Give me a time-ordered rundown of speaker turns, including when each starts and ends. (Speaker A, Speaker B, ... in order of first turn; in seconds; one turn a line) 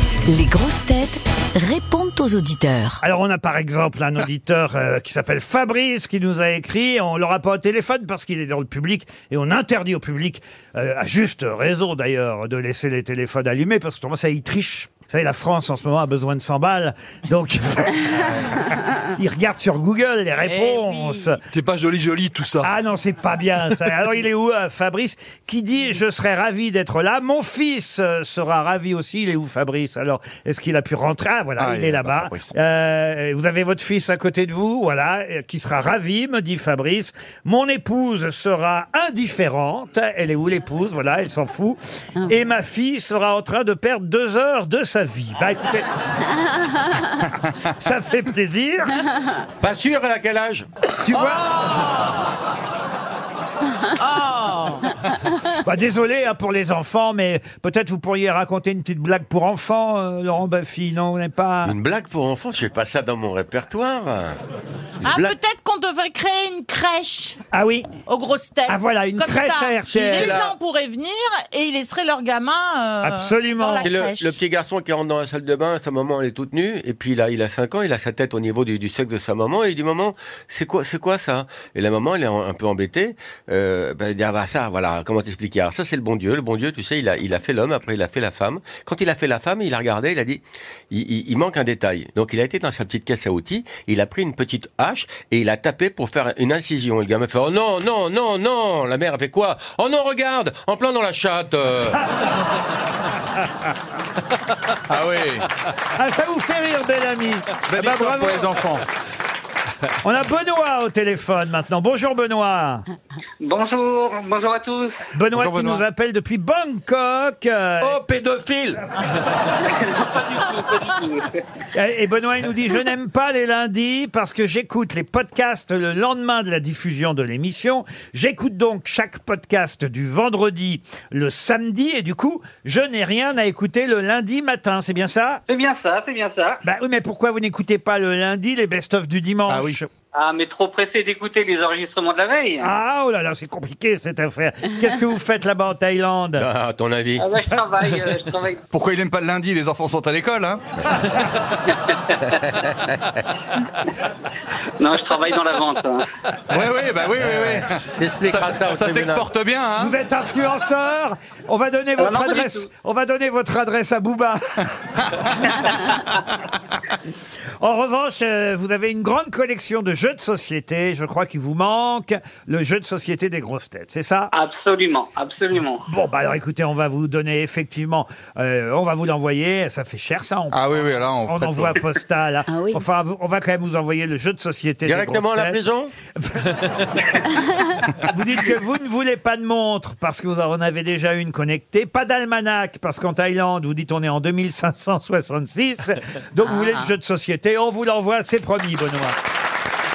Speaker A: 0.3-2.9
Speaker B: 0.8-1.1
Speaker C: 3.0-21.4
Speaker B: 20.5-21.2
Speaker D: 21.5-22.7
Speaker C: 22.6-45.9
Speaker D: 31.6-32.5
Speaker C: 47.6-49.0
Speaker E: 49.6-50.7
Speaker C: 51.0-51.5
Speaker B: 51.5-51.9
Speaker B: 54.0-54.8
Speaker C: 55.5-61.7
Speaker E: 61.6-64.3
Speaker E: 65.0-65.3
Speaker B: 65.0-67.4
Speaker C: 67.5-67.9
Speaker B: 68.1-74.4
Speaker C: 68.7-70.4
Speaker E: 70.1-70.5
Speaker C: 73.0-73.9
Speaker E: 73.8-102.0
Speaker C: 101.9-102.6
Speaker D: 104.9-105.5
Speaker C: 105.9-108.6
Speaker D: 107.7-108.8
Speaker C: 110.0-112.8
Speaker F: 113.4-115.0
Speaker C: 115.1-118.0
Speaker D: 115.3-115.8
Speaker D: 117.8-118.8
Speaker E: 118.1-118.3
Speaker F: 119.6-121.4
Speaker C: 121.7-135.4
Speaker F: 135.5-136.6
Speaker C: 136.6-139.9
Speaker D: 139.5-139.8
Speaker F: 140.1-142.7
Speaker C: 142.6-146.5
Speaker E: 146.4-147.3
Speaker F: 147.2-148.6
Speaker D: 148.7-150.6
Speaker F: 151.7-152.2
Speaker E: 152.4-152.9
Speaker F: 154.8-156.0
Speaker D: 156.5-159.9
Speaker E: 157.3-159.3
Speaker C: 159.8-164.6
Speaker F: 162.0-162.7
Speaker C: 165.4-165.8
Speaker C: 167.6-174.3
Speaker F: 174.3-175.8
Speaker C: 175.9-185.6
Speaker D: 180.5-181.8
Speaker B: 182.5-182.8
Speaker E: 184.8-185.9
Speaker C: 186.1-187.2
Speaker C: 187.9-199.2